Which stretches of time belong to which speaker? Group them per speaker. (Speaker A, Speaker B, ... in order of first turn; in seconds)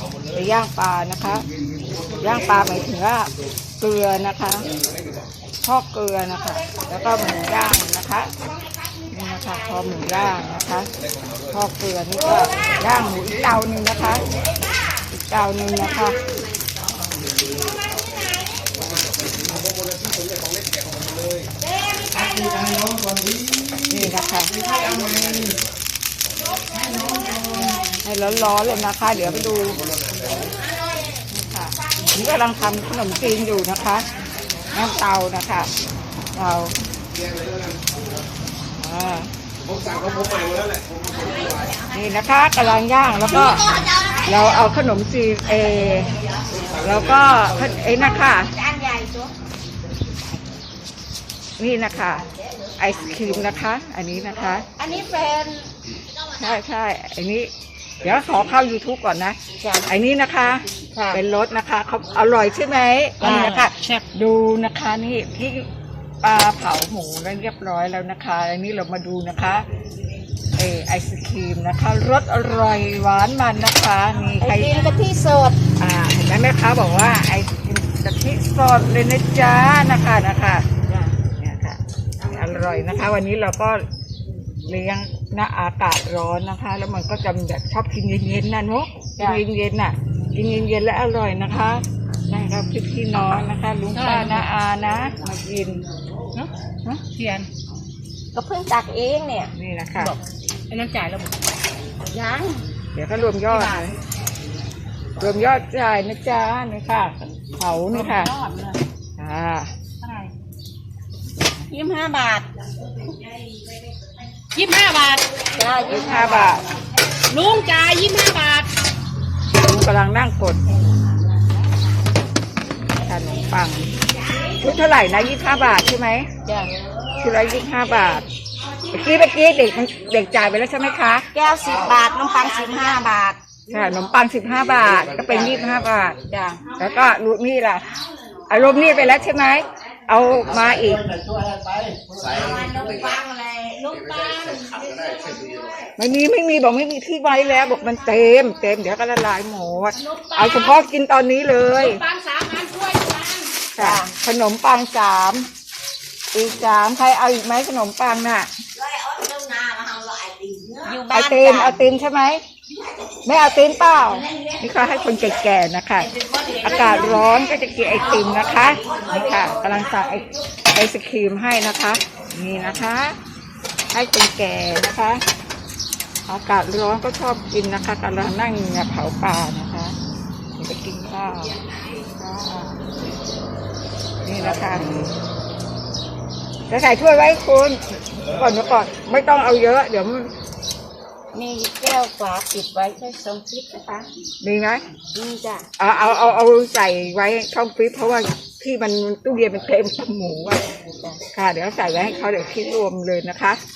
Speaker A: 0.3-1.4, 2.2-3.3, 3.8-4.7, 5.6-8.3, 9.1-10.9, 11.5-14.2, 15.1-16.2, 23.9-24.5, 27.6-29.8, 31.3-34.0, 34.7-35.7, 36.3-36.7, 38.6-39.3, 41.9-43.7, 44.2-46.1, 46.8-48.5, 51.6-52.2, 52.8-54.6, 56.4-57.5, 58.0-65.7, 66.2-69.6, 70.5-74.8, 75.8-80.6, 81.4-83.8, 84.7-95.8, 99.5-100.2, 102.9-103.9, 105.2-108.3, 109.2-109.7, 115.9-116.6, 119.6-120.6, 123.0-123.9, 124.6-126.3, 127.2-128.3, 128.9-131.3, 133.7-136.2, 136.8-137.9, 138.5-141.1, 146.0-152.0, 153.8-155.5, 156.3-158.5, 161.1-162.4, 163.2-173.2, 173.9-175.2, 176.3-179.9, 180.6-181.6, 184.2-185.1, 186.7-190.3, 194.4-194.8, 195.8-200.6, 201.3-203.6
Speaker B: 17.6-18.5, 21.7-22.8, 24.6-25.2, 43.4-44.3, 48.0-49.3, 54.8-55.7, 59.6-59.9, 60.9-61.2, 63.2-64.0, 74.4-75.6, 80.8-81.2, 98.3-99.5, 102.1-102.6, 103.5-103.9, 111.7-112.5, 115.5-116.7, 126.4-126.7, 131.3-133.4, 136.3-136.6, 142.3-145.5, 150.2-150.7, 151.8-152.2, 153.3-154.1, 158.8-161.8, 166.1-167.3, 168.2-169.5, 182.2-182.7, 191.3-194.1, 195.1-195.7
Speaker C: 18.0-18.2, 63.2-63.8, 93.9-94.5, 96.3-97.5, 100.7-101.3, 107.9-108.8, 110.0-110.3, 114.5-115.2, 117.3-118.7, 151.9-153.4